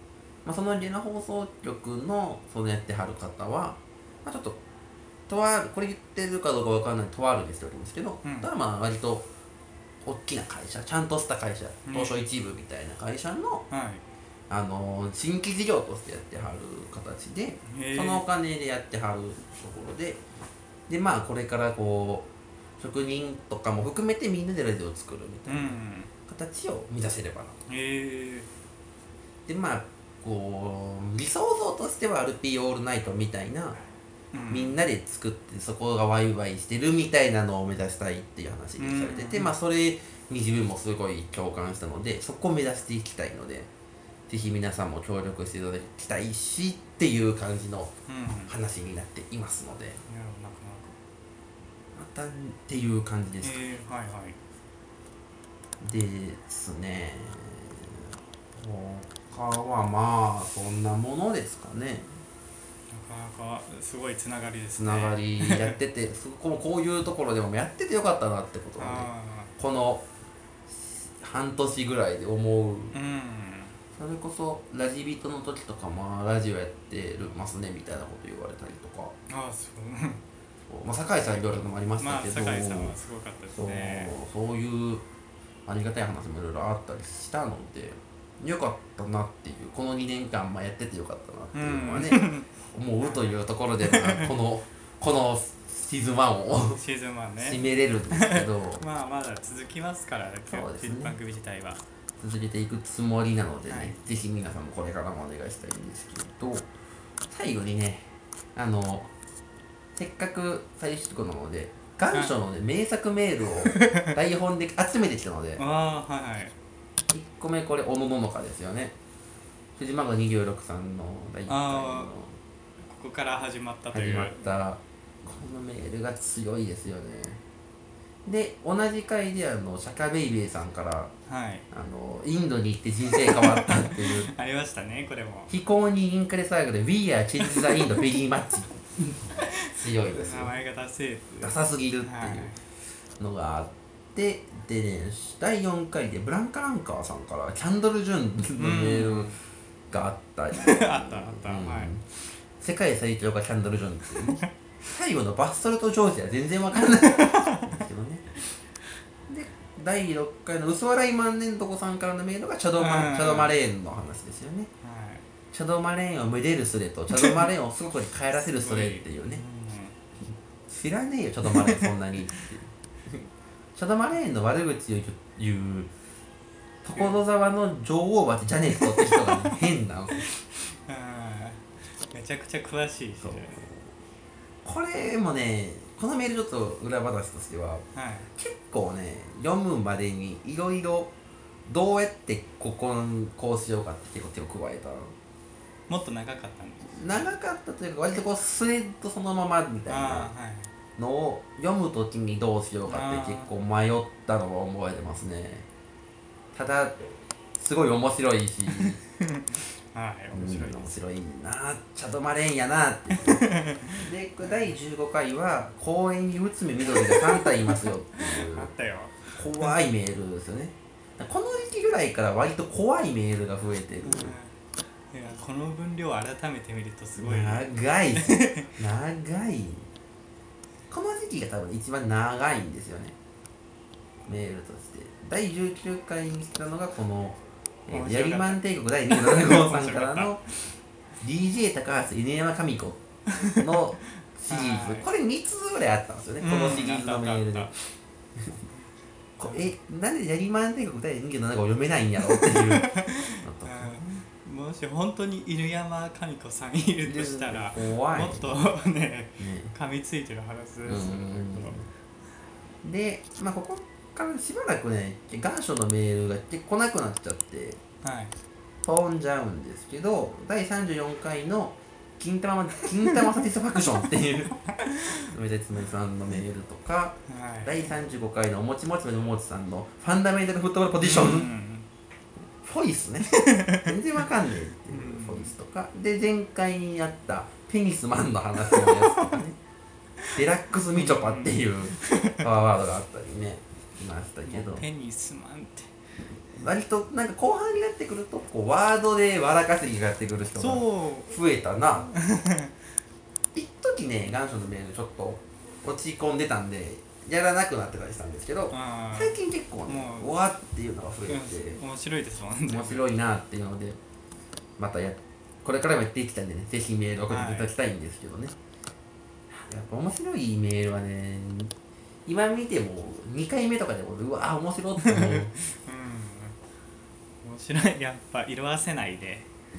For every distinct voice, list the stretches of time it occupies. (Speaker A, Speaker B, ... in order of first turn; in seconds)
Speaker A: 0.4-4.6, 5.3-9.3, 10.0-13.7, 14.5-20.2, 20.9-22.3, 22.8-27.6, 29.5-33.8, 34.5-43.7, 44.3-47.9, 48.5-50.0, 51.9-53.6, 55.8-62.1, 64.8-70.0, 70.7-73.0, 73.9-79.1, 80.7-83.0, 83.5-85.0, 85.7-96.8, 97.4-98.8, 100.5-101.2, 102.2-106.7, 107.3-109.1, 110.0-115.6, 117.1-119.0, 119.8-122.3, 123.9-127.4, 128.2-131.1, 131.7-134.3, 135.5-139.2, 139.7-140.6, 141.4-142.5, 143.2-149.4, 149.9-152.1, 152.6-158.2, 159.3-164.7, 165.5-169.4, 170.7-173.2, 173.8-175.9, 176.8-180.3, 183.2-183.9, 184.6-187.8, 188.3-191.1, 191.7-195.1, 196.9-200.3, 201.0-205.7, 206.5-207.0, 207.6-209.0, 210.3-218.7, 219.3-224.3, 227.2-229.9, 230.9-233.1, 234.2-240.4, 241.2-247.7, 249.4-254.0, 257.1-258.5, 259.4-259.7, 260.8-261.9, 262.8-267.8, 268.8-274.6, 275.2-281.5, 282.6-289.6, 290.3-294.8, 296.6-302.1, 303.5-311.8, 312.7-314.0, 314.8-318.6, 319.5-321.7, 322.2-325.5
Speaker B: 8.2-8.5, 11.9-12.2, 13.7-14.0, 17.6-18.2, 25.4-26.1, 27.7-28.5, 34.3-34.8, 38.8-39.5, 48.1-48.5, 50.0-51.0, 53.4-54.4, 62.9-65.8, 68.8-69.5, 72.9-73.8, 79.3-80.2, 82.0-84.1, 91.5-92.5, 93.0-94.3, 96.7-101.8, 103.7-104.0, 113.7-114.1, 115.6-116.5, 121.5-122.1, 122.8-124.5, 131.3-131.7, 133.1-135.5, 137.4-138.0, 139.4-142.6, 148.6-149.4, 150.5-151.9, 157.0-157.8, 162.8-163.5, 164.8-165.2, 167.2-167.5, 168.5-170.0, 171.5-171.9, 176.9-177.2, 178.8-179.6, 180.2-183.6, 187.9-188.3, 195.9-197.3, 199.9-200.7, 202.8-203.5, 208.8-211.0, 213.1-214.7, 216.9-219.7, 224.0-224.5, 225.1-228.7, 237.9-240.6, 243.4-243.6, 244.5-245.1, 246.4-247.7, 252.3-261.8, 268.0-268.3, 274.8-275.2, 277.3-277.9, 281.0-281.9, 283.3-283.9, 284.9-285.5, 288.7-289.4, 290.9-292.4, 294.4-295.9, 300.5-301.4, 302.1-302.7, 308.7-309.4, 309.9-310.3, 311.2-313.0, 317.3-317.7, 325.0-326.6, 327.4-329.5